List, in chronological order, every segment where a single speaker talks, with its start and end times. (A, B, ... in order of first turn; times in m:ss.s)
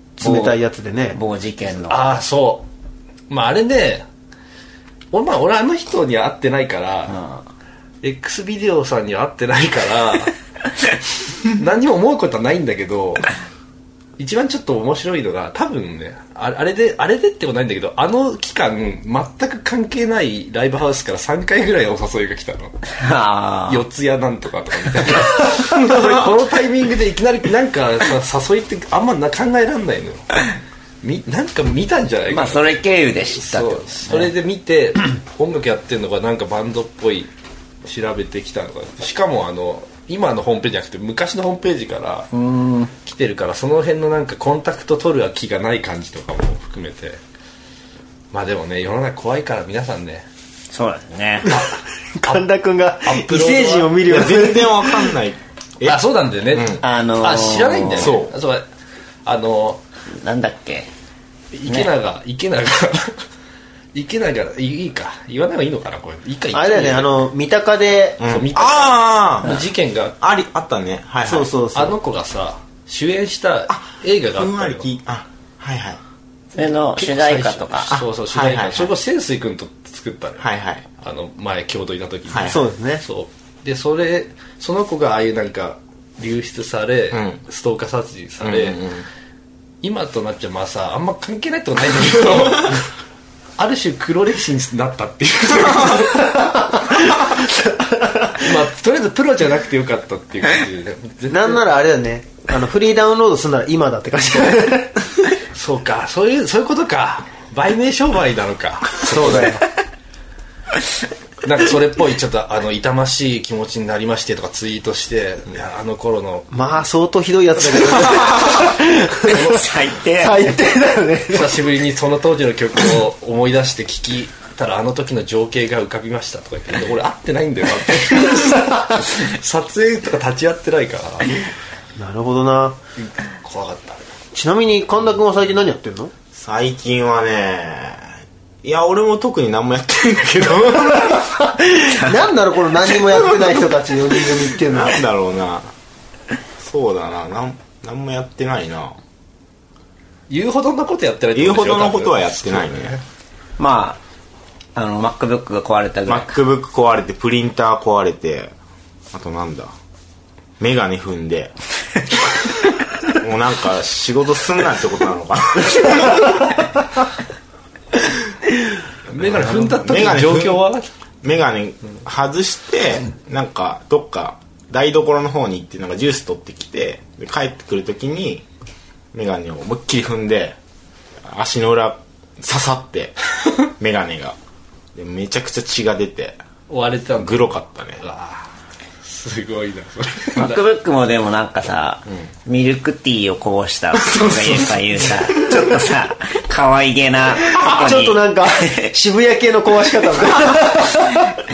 0:00.2-0:01.2 A
0:00.2-0:02.2 B
0:01.8-0:02.7 C
0:03.3-0:04.0 C
0:05.1-0:07.2 C
0:07.1-0:07.4 B
0:08.0-0:10.3 C
0:11.5-0:13.3 C
0:14.2-0:22.7 C
0:23.0-0:23.8 B
0:23.7-0:30.3 C
0:31.0-0:32.7 C
0:32.3-0:34.3 B
0:33.4-0:37.3 C
0:37.8-0:42.3 C
0:42.3-0:42.9 B
0:43.0-0:47.2 C
0:48.3-0:50.2 C
0:50.7-0:51.5 B
0:52.2-0:55.1 A
0:53.0-0:54.0 C
0:54.0-0:56.8 D
0:55.8-0:58.6 C
0:56.8-0:58.2 B
0:58.0-0:58.3 D
0:59.2-0:59.8 C
1:00.2-1:00.9 B
1:01.5-1:03.2 C
1:03.9-1:07.2 C
1:06.5-1:08.2 A
1:08.2-1:11.5 D
1:08.2-1:10.2 C
1:11.2-1:12.0 A
1:11.7-1:14.9 C
1:13.7-1:16.0 D
1:16.5-1:18.0 B
1:16.6-1:28.8 C
1:17.9-1:18.9 D
1:20.4-1:20.8 D
1:22.3-1:22.6 D
1:22.5-1:23.0 A
1:27.1-1:27.4 D
1:28.4-1:29.0 D
1:29.8-1:32.8 C
1:33.6-1:37.2 C
1:38.4-1:41.6 C
1:41.3-1:45.0 A
1:45.5-1:49.6 C
1:49.0-1:49.6 A
1:51.4-1:56.5 C
1:56.5-1:59.6 A
1:59.3-2:00.5 B
2:00.2-2:01.5 A
2:01.3-2:11.4 C
2:12.0-2:12.8 A
2:13.0-2:14.0 C
2:14.3-2:16.1 A
2:16.3-2:18.0 D
2:18.6-2:21.2 D
2:21.3-2:25.0 A
2:24.7-2:25.7 D
2:26.6-2:29.0 D
2:30.3-2:33.0 C
2:31.3-2:33.0 D
2:33.6-2:34.0 B
2:34.7-2:36.4 B
2:36.1-2:38.5 D
2:39.1-2:39.7 D
2:40.6-2:41.5 D
2:43.1-2:46.6 D
2:49.1-2:50.9 C
2:49.2-2:50.6 D
2:51.2-2:58.4 D
2:59.1-3:00.6 D
3:01.2-3:04.4 D
3:04.9-3:06.4 D
3:06.7-3:08.5 C
3:07.2-3:08.0 D
3:09.0-3:10.6 C
3:10.4-3:18.9 B
3:17.7-3:21.3 A